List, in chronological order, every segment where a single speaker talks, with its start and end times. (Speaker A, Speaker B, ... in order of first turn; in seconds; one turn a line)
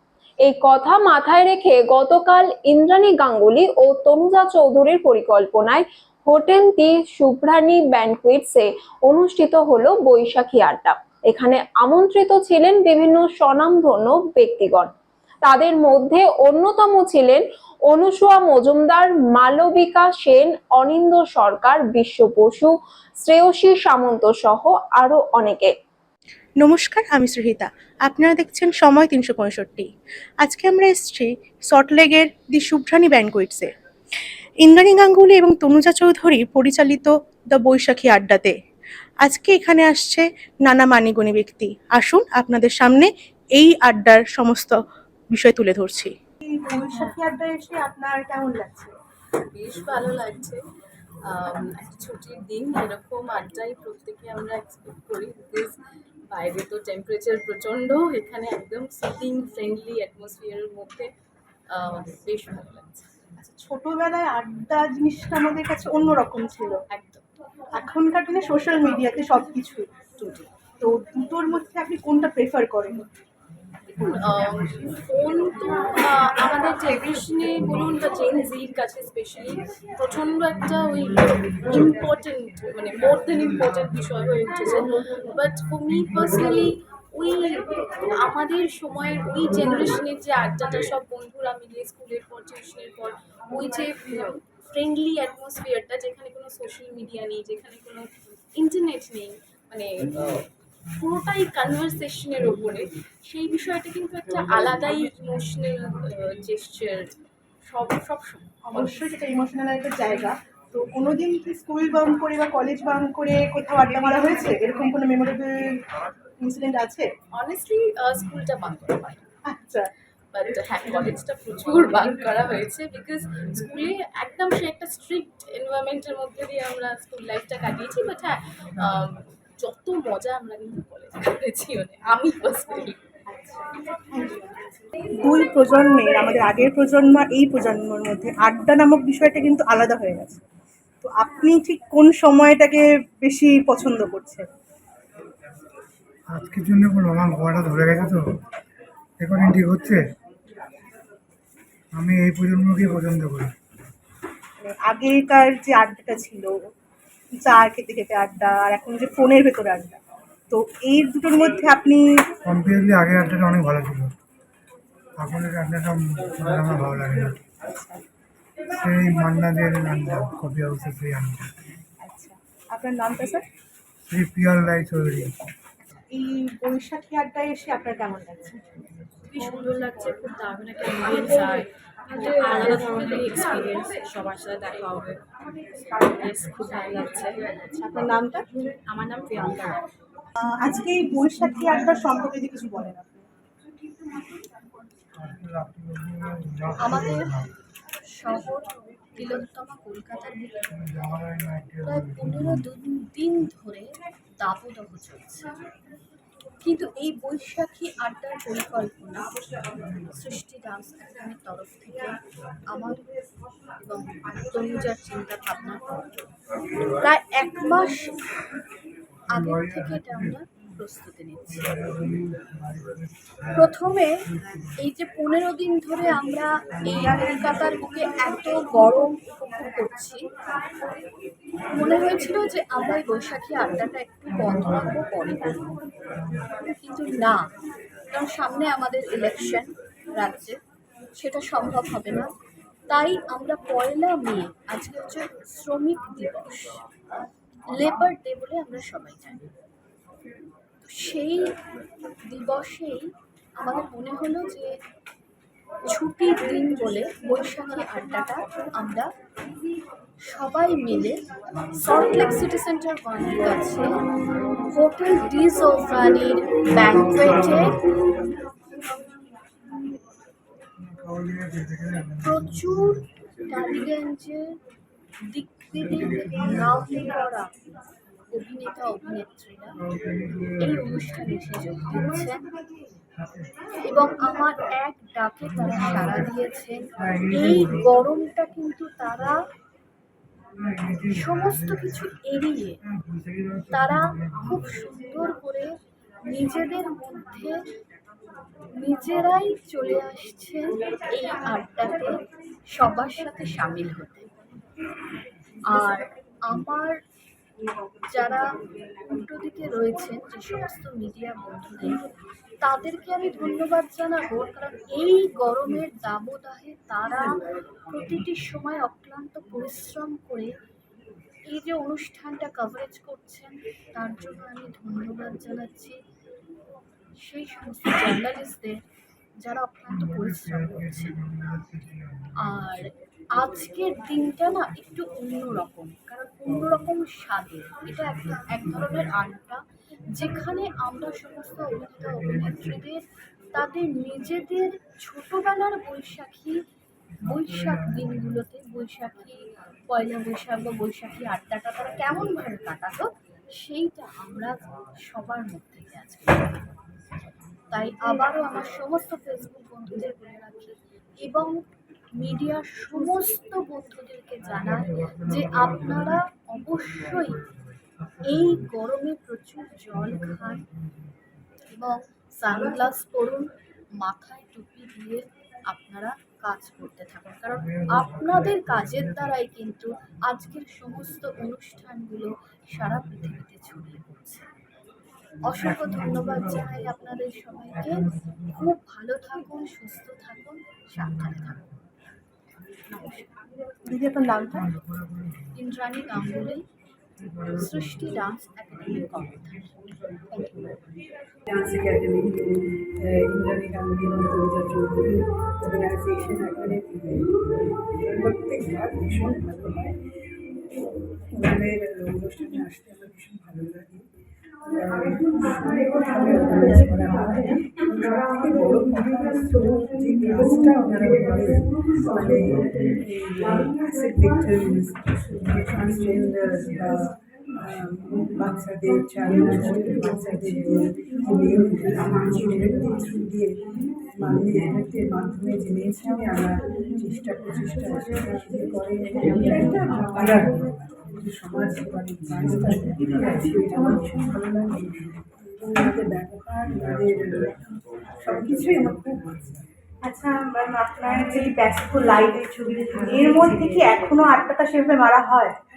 Speaker A: 0.5-14.9
Speaker A: 15.4-25.7
Speaker B: 26.6-29.9
Speaker B: 30.4-33.7
Speaker B: 34.6-38.6
Speaker B: 39.2-48.9
Speaker C: 49.5-50.6
Speaker C: 51.2-55.8
Speaker C: 56.3-61.1
Speaker C: 61.7-63.1
Speaker B: 63.4-66.8
Speaker C: 66.9-67.2
Speaker B: 67.8-70.0
Speaker C: 70.1-70.5
Speaker B: 70.8-73.0
Speaker C: 73.9-108.5
Speaker B: 108.6-115.8
Speaker C: 114.0-114.8
Speaker B: 116.4-117.1
Speaker C: 117.3-119.3
Speaker B: 119.5-119.9
Speaker C: 120.3-133.0
Speaker B: 133.3-133.6
Speaker B: 134.1-134.6
Speaker B: 135.2-140.4
Speaker B: 141.0-144.4
Speaker D: 146.3-148.2
Speaker D: 149.2-150.0
Speaker D: 152.0-153.5
Speaker B: 154.6-156.5
Speaker B: 157.3-160.0
Speaker B: 160.5-162.1
Speaker D: 162.4-164.1
Speaker D: 165.2-167.3
Speaker B: 167.7-168.0
Speaker D: 168.7-171.5
Speaker B: 172.0-173.4
Speaker D: 174.1-175.3
Speaker B: 176.1-178.6
Speaker C: 179.3-185.2
Speaker C: 186.0-187.7
Speaker B: 187.8-188.4
Speaker C: 188.8-189.8
Speaker B: 190.4-193.2
Speaker D: 195.2-197.5
Speaker E: 196.8-197.3
Speaker E: 198.1-200.7
Speaker D: 200.8-202.6
Speaker E: 201.8-205.5
Speaker E: 206.6-209.3
Speaker E: 210.1-212.2
Speaker E: 212.7-213.0
Speaker E: 213.8-216.0
Speaker E: 217.0-218.1
Speaker E: 219.3-221.7
Speaker D: 219.3-220.3
Speaker D: 221.8-223.7
Speaker E: 223.5-224.2
Speaker E: 224.8-230.2
Speaker E: 231.7-235.7
Speaker E: 236.8-237.5
Speaker E: 238.1-240.6
Speaker E: 241.2-242.3
Speaker E: 242.9-246.8
Speaker E: 247.7-249.5
Speaker E: 250.8-251.6
Speaker E: 252.2-254.8
Speaker E: 255.8-259.1
Speaker E: 260.2-261.2
Speaker E: 261.8-263.9
Speaker E: 264.7-267.8
Speaker D: 267.1-267.6
Speaker D: 270.9-273.0
Speaker E: 272.2-274.6
Speaker E: 275.3-277.5
Speaker D: 276.3-276.9
Speaker E: 278.3-279.8
Speaker D: 280.2-281.0
Speaker E: 280.6-282.4
Speaker E: 283.9-289.3
Speaker D: 285.5-286.3
Speaker D: 287.0-287.9
Speaker D: 290.7-292.0
Speaker E: 291.1-292.8
Speaker D: 293.0-294.3
Speaker E: 293.7-297.6
Speaker E: 298.8-302.1
Speaker E: 302.7-304.3
Speaker E: 305.7-307.0
Speaker E: 308.1-308.5
Speaker E: 309.1-312.1
Speaker E: 312.6-317.4
Speaker E: 317.9-320.5
Speaker E: 321.5-326.0
Speaker E: 327.2-328.8
Speaker E: 329.4-331.1
Speaker D: 329.9-332.3
Speaker E: 332.4-339.6
Speaker E: 340.1-346.6
Speaker E: 347.2-356.6
Speaker E: 357.7-361.6
Speaker E: 362.1-367.4
Speaker D: 365.5-365.9
Speaker E: 368.2-370.6
Speaker E: 371.7-384.4
Speaker D: 377.7-378.9
Speaker E: 385.4-391.7
Speaker D: 385.6-386.7
Speaker D: 387.8-388.2
Speaker E: 392.9-393.3
Speaker B: 393.9-394.7
Speaker D: 394.6-395.3
Speaker E: 395.5-396.6
Speaker E: 397.5-400.8
Speaker F: 401.5-407.2
Speaker F: 408.0-409.9
Speaker F: 411.3-414.1
Speaker F: 414.6-449.6
Speaker B: 450.0-455.6